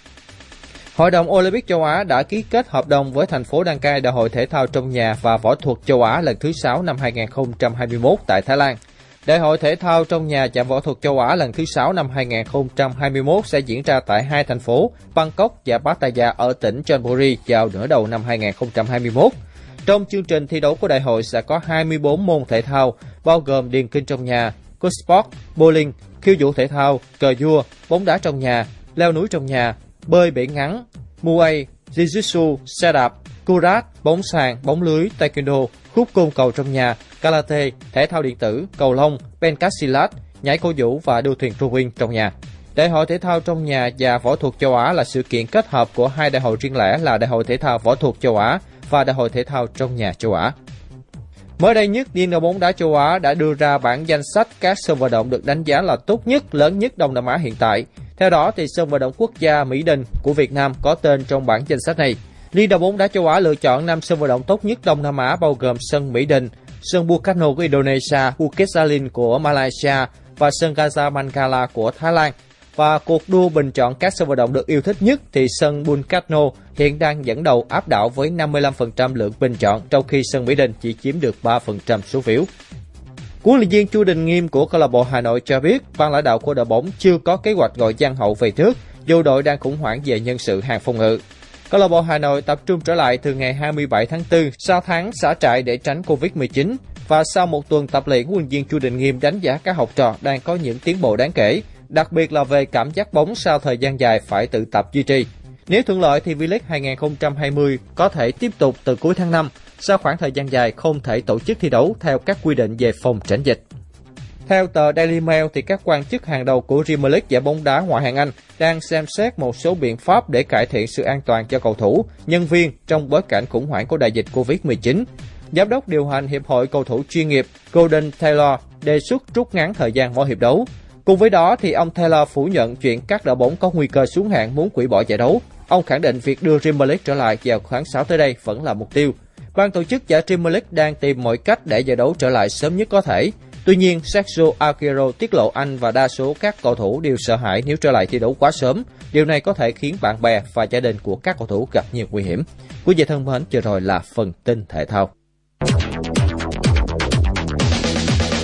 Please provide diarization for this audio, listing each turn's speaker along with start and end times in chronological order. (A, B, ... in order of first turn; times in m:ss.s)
0:01.0-0:50.5 A
0:51.6-1:22.5 A
1:23.4-1:53.6 A
1:54.5-2:35.1 A